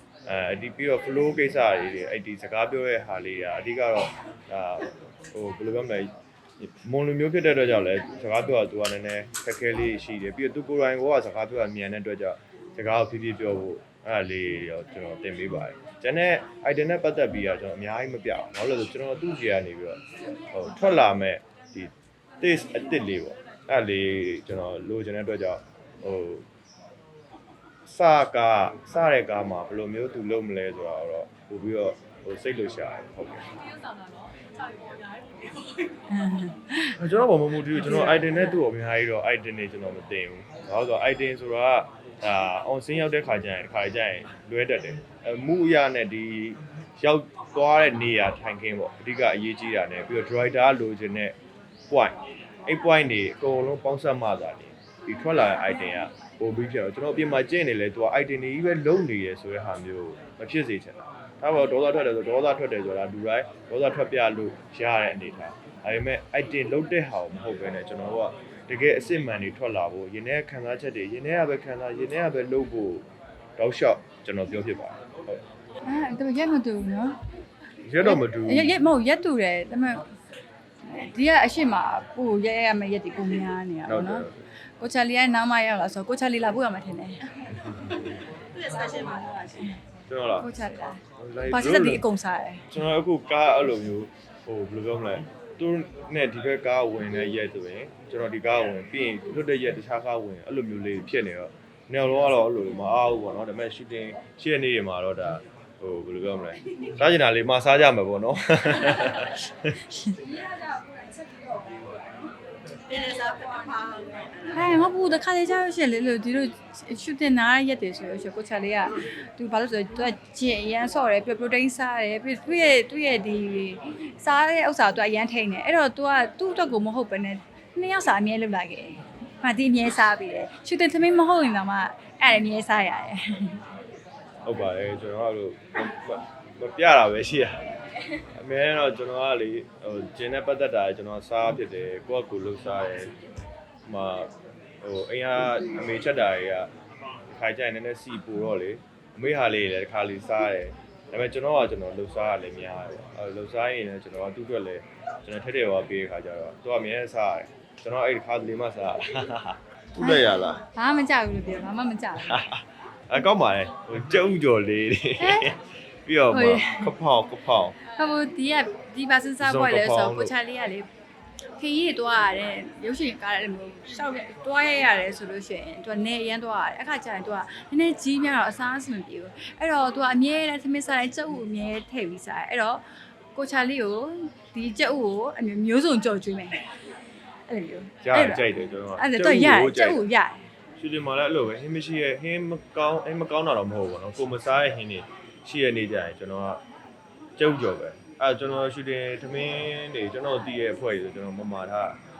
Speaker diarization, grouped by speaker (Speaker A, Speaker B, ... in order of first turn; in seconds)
Speaker A: 0.2-26.4, 27.9-33.5, 37.0-51.4, 51.9-73.0, 73.6-75.4, 77.8-78.8, 83.8-84.5, 90.1-90.5, 91.2-92.0, 92.7-109.7, 134.4-137.6, 138.2-143.1, 143.8-144.3, 144.8-146.7, 147.2-160.6, 162.2-167.8, 169.4-170.3, 188.0-190.0, 190.8-196.6, 197.4-202.0
Speaker B: 33.5-36.1
Speaker C: 36.1-37.0, 37.8-38.6, 75.8-77.2, 78.0-80.0, 80.8-84.2, 84.8-87.2, 88.8-89.7, 90.4-92.6, 109.9-110.4, 114.4-133.6, 160.0-162.4, 165.2-165.5, 166.3-166.9, 167.9-170.9, 171.6-182.8, 183.3-186.6, 187.5-190.4